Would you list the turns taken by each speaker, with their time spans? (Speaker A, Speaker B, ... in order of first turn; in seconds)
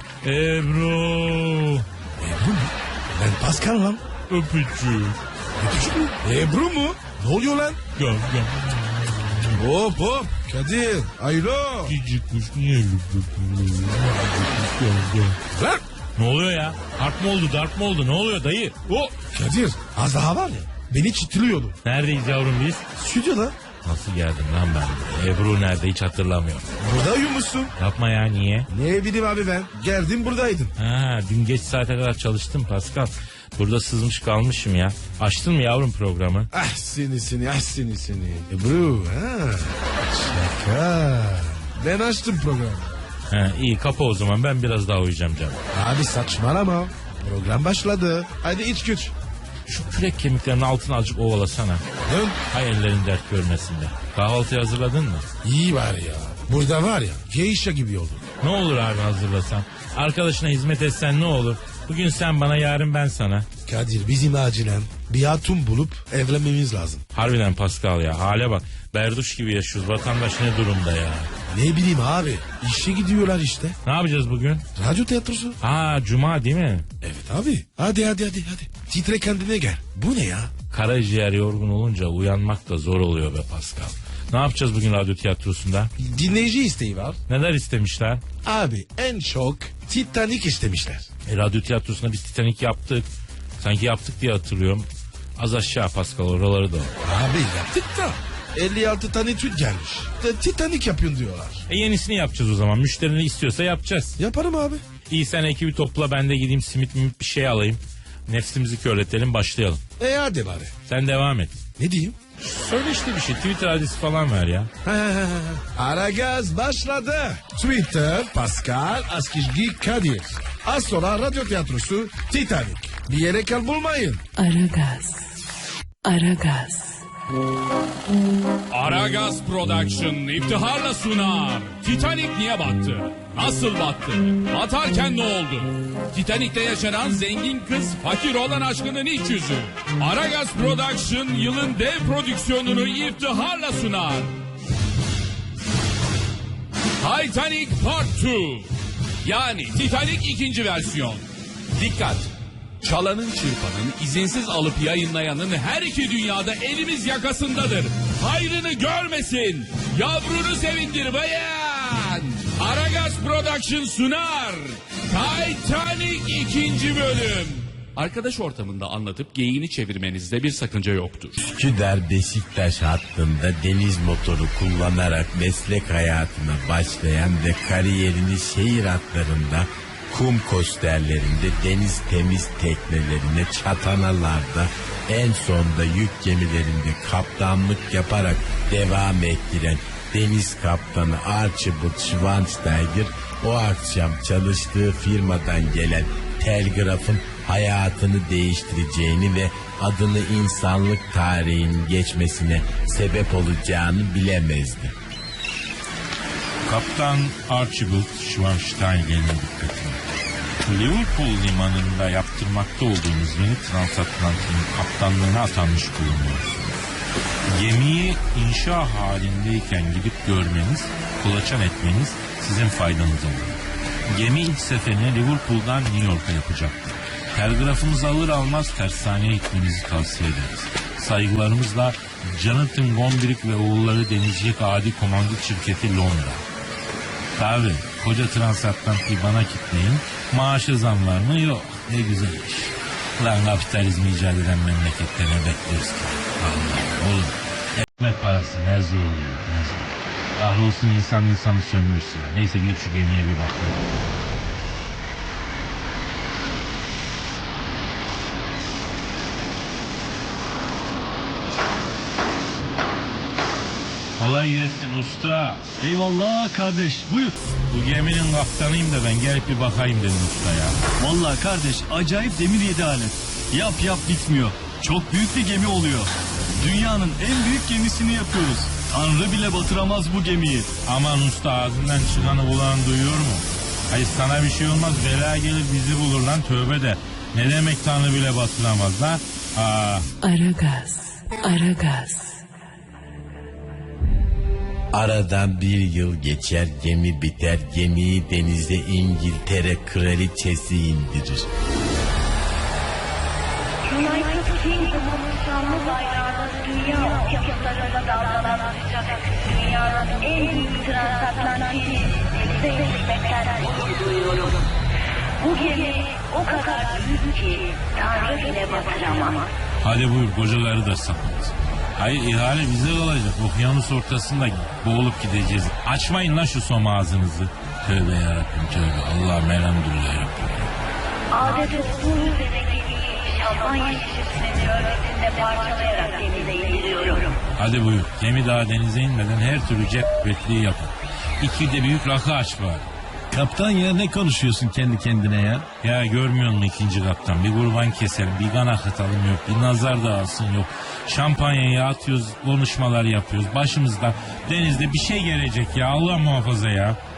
Speaker A: 0.2-1.9, 4.3-5.2, 8.0-9.5, 11.9-15.4, 16.2-19.1, 21.8-22.9, 23.8-26.7, 27.8-28.7, 30.8-36.5, 43.3-45.6, 49.7-51.9, 52.5-55.3, 58.4-63.5, 67.1-71.3, 73.8-74.7, 75.6-76.9, 80.7-85.9, 87.3-88.2, 91.3-93.1, 93.6-96.9, 101.7-104.2, 105.1-109.8, 110.9-111.6, 112.4-114.7, 206.7-210.0, 210.7-216.8, 217.5-236.4, 237.4-253.8, 264.2-265.7, 267.7-270.8, 280.9-290.1, 319.8-330.7, 337.6-342.9, 345.8-357.0
Speaker B: 2.2-4.0, 5.6-7.8, 9.5-11.9, 15.5-15.8, 19.2-21.8, 23.0-23.6, 26.8-27.8, 28.7-30.7, 36.5-42.9, 45.7-49.1, 52.1-52.4, 55.4-58.3, 63.7-67.0, 71.5-73.8, 74.8-75.6, 77.0-80.5, 86.0-87.2, 88.4-91.1, 97.0-101.7, 104.2-104.8, 110.0-110.7, 111.8-112.2, 114.8-124.2
Speaker C: 124.4-125.2, 126.0-126.8, 290.2-292.2
Speaker D: 128.7-144.3, 147.0-148.7, 149.2-151.2, 151.8-152.3, 152.8-171.4
Speaker E: 171.4-204.9, 294.9-301.5
Speaker F: 265.8-267.4, 271.0-280.7
Speaker G: 303.8-314.6, 315.4-319.5, 331.3-337.4
Speaker H: 343.3-345.7